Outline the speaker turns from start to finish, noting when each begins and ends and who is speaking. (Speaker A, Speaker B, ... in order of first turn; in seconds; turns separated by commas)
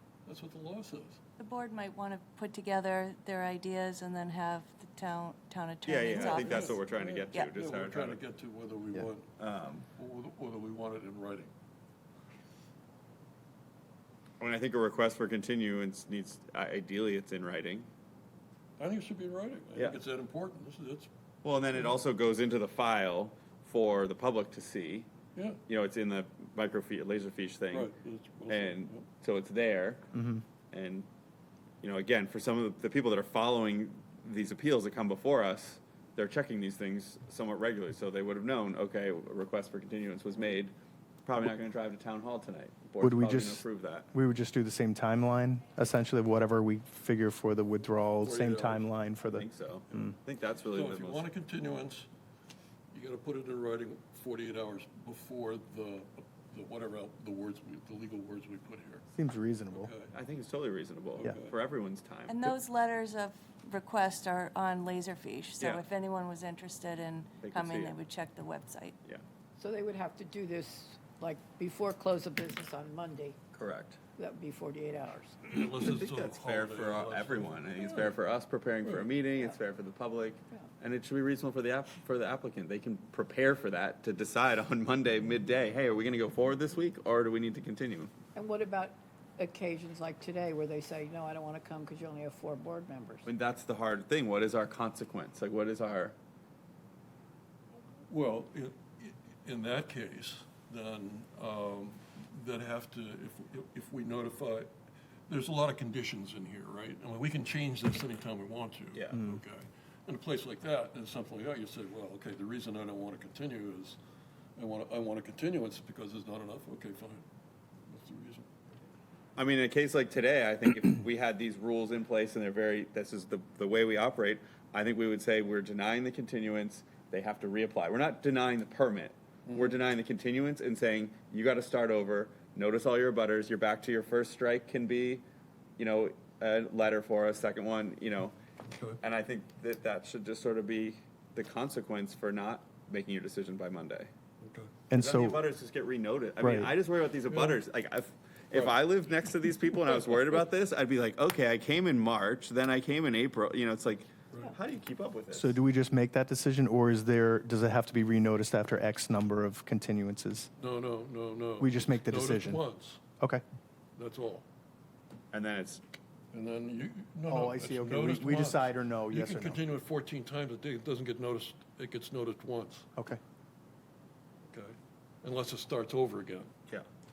Speaker A: 0.2-1.2, Speaker B: 1.4-7.5, Speaker C: 5.8-8.2, Speaker A: 6.1-9.3, Speaker C: 9.4-9.9, Speaker A: 9.9-11.5, Speaker C: 14.4-17.9, Speaker A: 18.8-21.1, Speaker C: 21.4-25.1, Speaker A: 25.3-25.6, Speaker C: 25.7-27.9, Speaker A: 27.7-29.0, Speaker C: 28.5-30.1, Speaker D: 30.1-30.4, Speaker C: 30.7-31.1, Speaker C: 31.8-40.7, Speaker C: 41.2-44.1, Speaker D: 43.0-50.0, Speaker A: 48.2-48.9, Speaker C: 49.3-51.3, Speaker A: 50.7-52.1, Speaker A: 52.9-59.0, Speaker D: 59.1-59.9, Speaker A: 59.7-60.1, Speaker C: 60.1-62.6, Speaker A: 61.2-61.5, Speaker B: 62.3-69.0, Speaker C: 65.6-65.8, Speaker C: 67.4-68.0, Speaker E: 69.6-73.4, Speaker C: 73.5-74.0, Speaker E: 74.2-75.4, Speaker A: 75.4-78.1, Speaker C: 75.8-88.1, Speaker E: 88.3-93.3, Speaker C: 93.2-96.1, Speaker A: 98.1-104.7, Speaker A: 105.3-114.0, Speaker C: 108.9-109.2, Speaker A: 114.5-117.2, Speaker A: 117.9-118.5, Speaker C: 119.4-135.2, Speaker C: 135.8-138.3, Speaker A: 138.7-139.0, Speaker C: 139.0-144.1, Speaker A: 144.4-144.7, Speaker D: 144.9-145.4, Speaker C: 144.9-155.6, Speaker D: 146.4-146.7, Speaker A: 147.3-147.6, Speaker D: 155.3-160.5, Speaker A: 160.6-163.0, Speaker D: 161.6-162.6, Speaker A: 163.9-164.4, Speaker C: 165.3-165.8, Speaker A: 166.3-172.9, Speaker D: 167.3-169.6, Speaker A: 174.5-176.5